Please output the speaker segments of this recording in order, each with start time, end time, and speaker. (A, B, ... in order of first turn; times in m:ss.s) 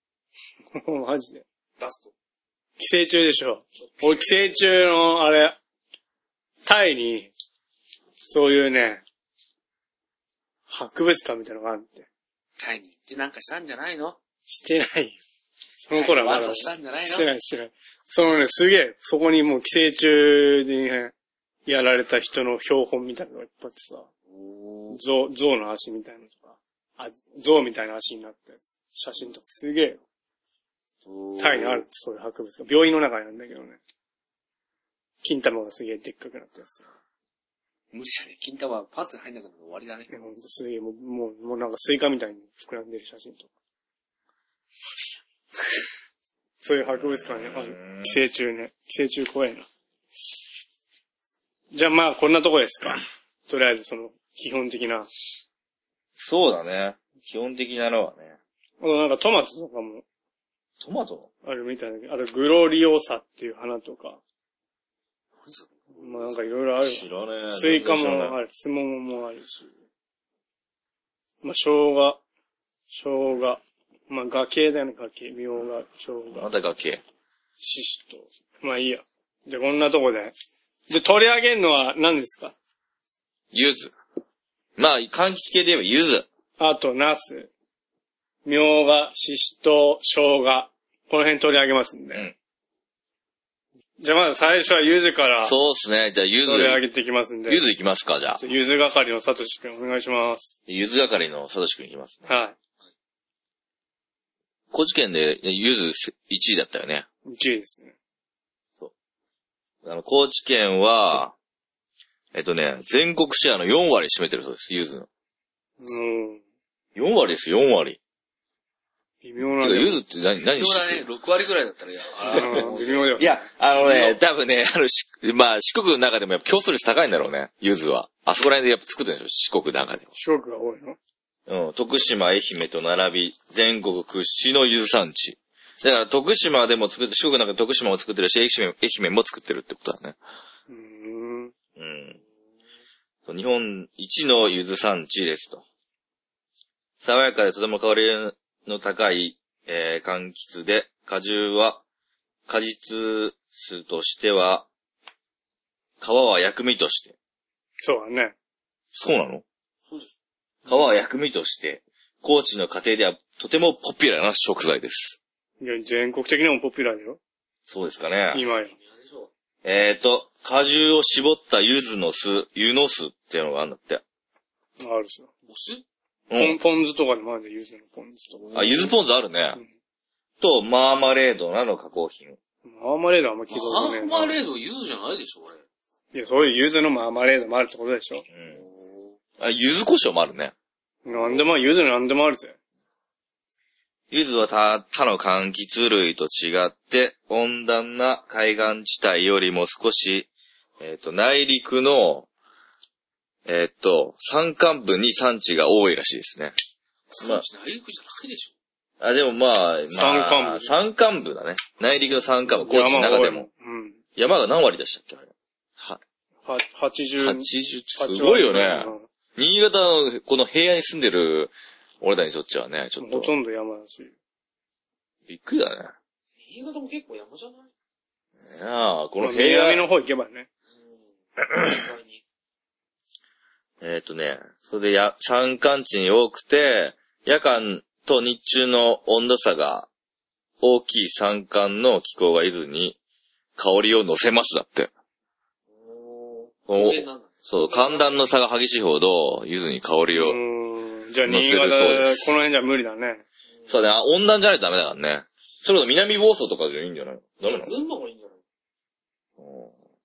0:00.7-0:01.4 A
0:01.8-0:02.1 B
0:02.8-0:05.6 A
0:03.8-0:04.5 B
0:06.6-0:07.3 A
0:08.3-0:09.0 A
0:10.7-0:12.1 A
0:12.6-0:14.2 B
0:14.5-0:15.2 A
0:15.8-0:21.1 A
0:15.9-0:17.3 B
0:21.7-0:24.1 A
0:24.3-0:25.0 B
0:24.9-0:30.0 A
0:31.0-0:31.9 B
0:31.4-0:33.8 A
0:35.2-0:36.8 A
0:37.9-0:40.1 B
0:40.1-0:43.5 A
0:46.6-0:49.7 A
0:46.8-0:48.2 C
0:51.7-0:55.1 A
0:56.2-0:58.4 C
0:58.8-1:00.0 A
1:00.8-1:01.3 C
1:01.4-1:04.2 A
1:05.4-1:06.4 B
1:06.0-1:09.7 A
1:06.8-1:08.4 C
1:11.4-1:12.2 A
1:12.9-1:16.5 A
1:16.3-1:17.0 C
1:17.6-1:20.3 A
1:20.9-1:22.6 A
1:23.5-1:23.9 C
1:24.8-1:26.3 C
1:26.6-1:27.5 A
1:28.4-1:32.3 A
1:34.0-1:35.6 A
1:35.4-1:36.8 C
1:36.4-1:37.6 A
1:37.5-1:38.4 C
1:38.4-1:40.6 A
1:40.7-1:42.3 C
1:42.3-1:42.6 A
1:44.7-1:47.1 C
1:47.3-1:48.0 A
1:49.8-1:51.4 C
1:52.3-1:55.1 C
1:55.8-1:56.4 A
1:57.0-1:58.0 C
1:59.2-2:00.0 A
1:59.6-2:01.1 C
2:00.6-2:03.2 B
2:02.3-2:03.5 A
2:02.3-2:02.7 C
2:03.2-2:10.1 C
2:03.8-2:04.2 B
2:10.2-2:11.0 A
2:11.5-2:20.2 C
2:20.7-2:21.5 A
2:21.8-2:22.2 C
2:23.3-2:25.6 C
2:27.0-2:31.8 C
2:32.5-2:34.7 C
2:36.0-2:37.2 C
2:37.8-2:38.4 A
2:38.9-2:39.4 C
2:39.9-2:40.2 B
2:40.7-2:45.2 C
2:45.6-2:47.2 A
2:47.7-2:48.4 C
2:48.3-2:48.8 A
2:48.7-2:49.3 B
2:49.6-2:54.0 C
2:54.8-2:55.3 A
2:55.5-2:55.8 B
2:56.3-2:56.6 C
2:56.4-2:58.5 A
2:58.4-2:58.9 B
2:58.5-2:59.6 C
3:00.4-3:02.4 C
3:02.6-3:04.4 A
3:03.5-3:05.6 B
3:06.1-3:08.2 A
3:08.3-3:08.6 C
3:08.5-3:09.2 B
3:09.4-3:10.5 C
3:11.0-3:12.6 A
3:11.1-3:11.5 B
3:14.1-3:20.3 C
3:20.8-3:22.3 C
3:23.5-3:26.5 C
3:27.1-3:28.5 B
3:29.0-3:33.5 C
3:29.9-3:30.7 A
3:32.6-3:34.0 A
3:34.2-3:36.0 C
3:36.5-3:39.1 A
3:37.2-3:43.3 C
3:43.0-3:44.1 A
3:45.3-3:45.9 C
3:46.4-3:47.7 B
3:48.4-3:49.9 C
3:49.2-3:50.5 A
3:50.7-3:52.2 B
3:53.8-3:59.9 C
4:00.6-4:03.0 C
4:03.6-4:04.9 C
4:05.7-4:08.2 B
4:06.7-4:10.4 C
4:10.2-4:13.2 A
4:11.3-4:12.4 C
4:13.7-4:17.7 C
4:17.4-4:18.4 B
4:19.4-4:19.7 C